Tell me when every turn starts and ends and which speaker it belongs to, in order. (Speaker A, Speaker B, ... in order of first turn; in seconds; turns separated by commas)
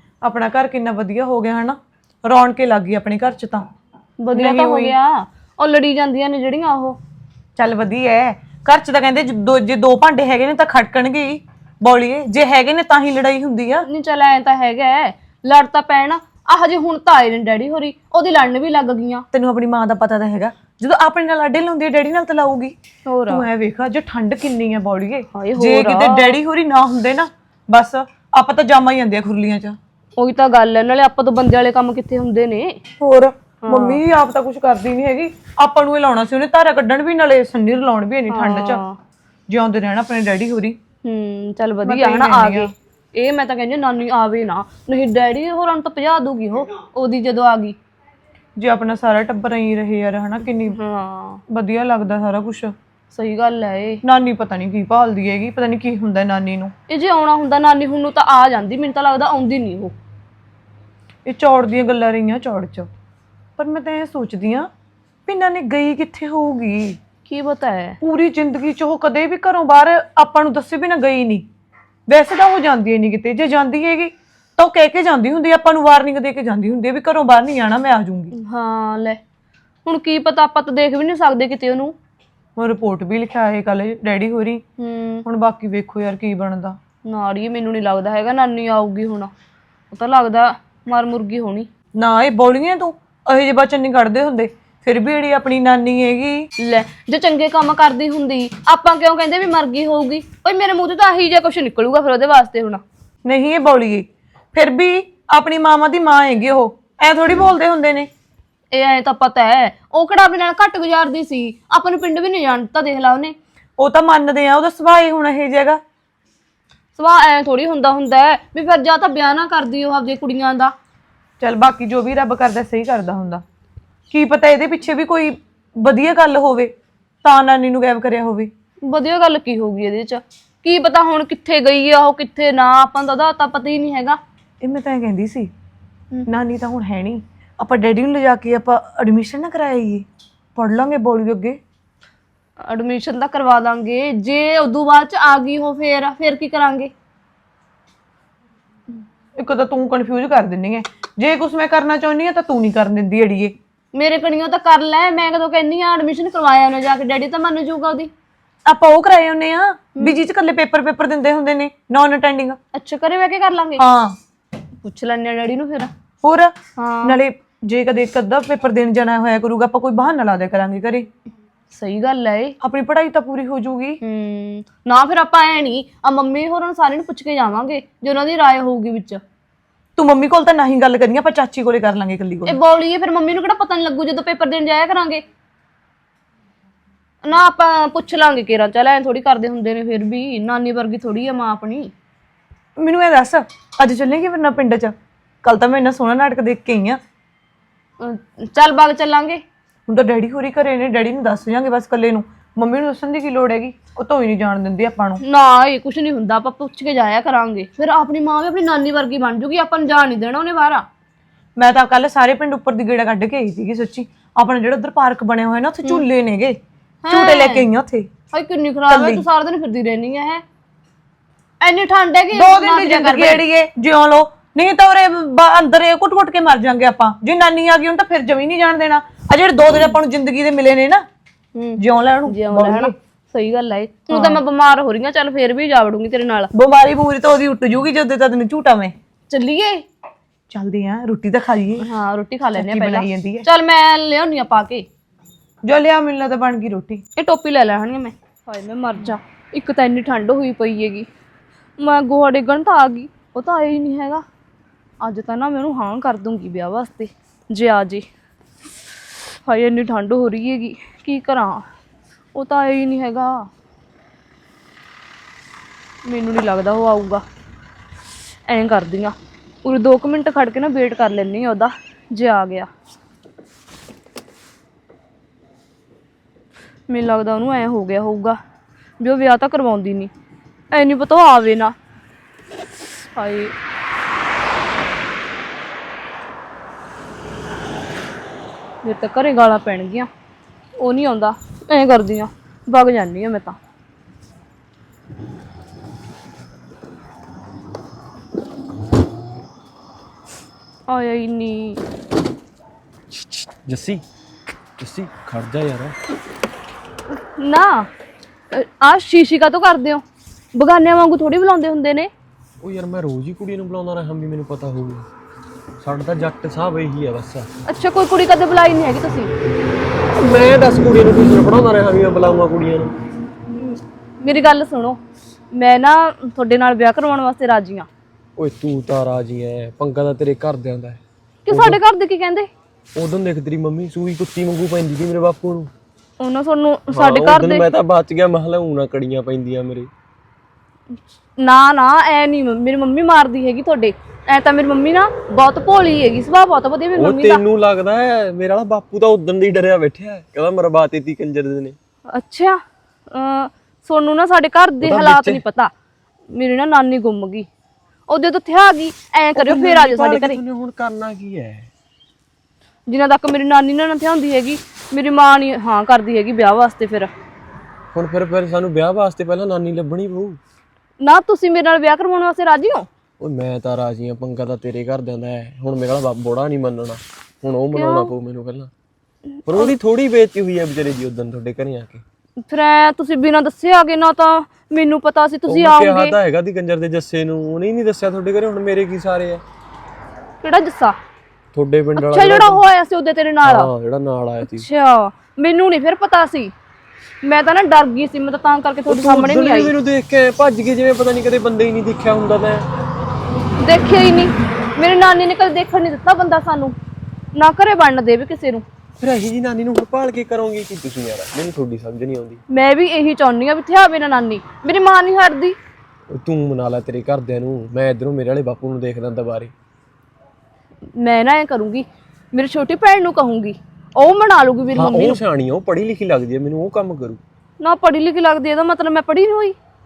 Speaker A: 0.2-3.7, Speaker B: 4.2-7.0, Speaker A: 4.3-4.9, Speaker A: 7.6-13.9, Speaker B: 13.9-19.2, Speaker A: 19.3-22.8, Speaker B: 23.1-23.5, Speaker A: 23.3-29.8, Speaker B: 25.3-26.4, Speaker B: 30.2-32.8, Speaker A: 33.0-38.8, Speaker B: 33.6-34.0, Speaker B: 38.3-39.0, Speaker A: 39.5-40.8, Speaker B: 41.0-47.8, Speaker A: 41.8-42.7, Speaker A: 48.6-50.8, Speaker B: 50.7-51.4, Speaker A: 51.5-52.7, Speaker B: 53.1-54.0, Speaker A: 54.0-56.7, Speaker B: 56.9-60.0, Speaker A: 61.3-62.9, Speaker A: 63.6-64.7, Speaker A: 65.3-67.0, Speaker B: 67.3-68.0, Speaker A: 68.0-71.5, Speaker A: 72.1-78.3, Speaker B: 78.3-79.2, Speaker B: 79.9-82.0, Speaker A: 82.6-84.6, Speaker B: 84.8-85.2, Speaker A: 85.2-86.8, Speaker B: 87.0-89.3, Speaker B: 89.9-91.7, Speaker A: 92.0-96.5, Speaker B: 96.6-102.8, Speaker A: 103.2-108.1, Speaker B: 108.7-113.3, Speaker A: 113.8-115.8, Speaker B: 117.0-120.8, Speaker A: 121.4-123.4, Speaker A: 124.1-128.5, Speaker B: 128.9-134.2, Speaker A: 134.6-135.5, Speaker A: 136.3-141.6, Speaker B: 142.7-146.9, Speaker A: 149.4-153.6, Speaker B: 153.9-158.1, Speaker A: 158.7-162.6, Speaker B: 162.7-163.8, Speaker A: 163.8-164.2, Speaker B: 164.8-165.9, Speaker A: 166.2-171.1, Speaker B: 166.8-167.2, Speaker B: 171.7-172.6, Speaker A: 172.6-174.0, Speaker B: 174.0-179.2, Speaker A: 180.0-182.6, Speaker B: 182.5-185.2, Speaker B: 187.2-191.9, Speaker A: 192.8-197.0, Speaker B: 198.0-199.4, Speaker A: 199.9-205.2, Speaker B: 205.2-210.9, Speaker A: 211.6-216.6, Speaker B: 217.0-217.7, Speaker A: 217.1-218.1, Speaker B: 218.3-220.4, Speaker A: 218.9-219.2, Speaker B: 221.6-223.4, Speaker A: 222.3-231.1, Speaker B: 231.6-236.5, Speaker A: 231.8-232.9, Speaker A: 234.1-234.4, Speaker A: 236.5-238.9, Speaker B: 239.3-239.8, Speaker A: 240.5-241.8, Speaker B: 241.8-244.9, Speaker A: 242.6-243.5, Speaker A: 245.7-247.0, Speaker B: 247.2-251.1, Speaker B: 251.8-254.2, Speaker B: 255.0-258.1, Speaker B: 259.5-261.6, Speaker B: 262.4-263.5, Speaker B: 266.1-267.2, Speaker B: 268.5-272.7, Speaker B: 276.9-278.4, Speaker B: 279.0-280.1, Speaker B: 280.7-281.7, Speaker B: 283.2-283.5, Speaker B: 288.8-290.1, Speaker B: 290.8-293.6, Speaker B: 300.9-301.8, Speaker C: 303.2-304.0, Speaker C: 304.8-305.9, Speaker B: 307.4-307.9, Speaker B: 308.5-310.0, Speaker B: 310.5-312.1, Speaker C: 312.6-315.1, Speaker C: 315.8-317.5, Speaker B: 317.7-319.3, Speaker C: 320.1-322.9, Speaker B: 323.5-325.0, Speaker B: 325.5-327.9, Speaker C: 328.4-331.8, Speaker B: 331.5-332.5, Speaker C: 333.0-335.7, Speaker B: 336.2-337.7, Speaker C: 336.9-339.9, Speaker B: 341.4-347.4, Speaker C: 346.9-351.8, Speaker B: 352.1-355.7, Speaker C: 354.8-355.4, Speaker B: 356.3-357.5, Speaker B: 358.1-360.4, Speaker C: 359.4-361.7, Speaker B: 362.9-367.1, Speaker C: 367.9-370.4, Speaker B: 371.0-372.9, Speaker C: 373.2-378.7, Speaker B: 377.7-378.1, Speaker C: 379.5-382.0, Speaker B: 382.5-386.1, Speaker C: 385.5-389.4, Speaker B: 390.4-391.0, Speaker C: 391.5-392.6, Speaker B: 392.0-393.7, Speaker C: 393.4-394.7, Speaker B: 394.4-396.5, Speaker B: 397.2-399.7, Speaker C: 398.9-402.6, Speaker B: 403.6-406.8, Speaker B: 407.3-408.6, Speaker C: 409.0-412.4, Speaker B: 412.5-415.6, Speaker C: 416.1-419.5, Speaker B: 421.0-425.2, Speaker C: 424.8-427.2, Speaker B: 427.6-429.6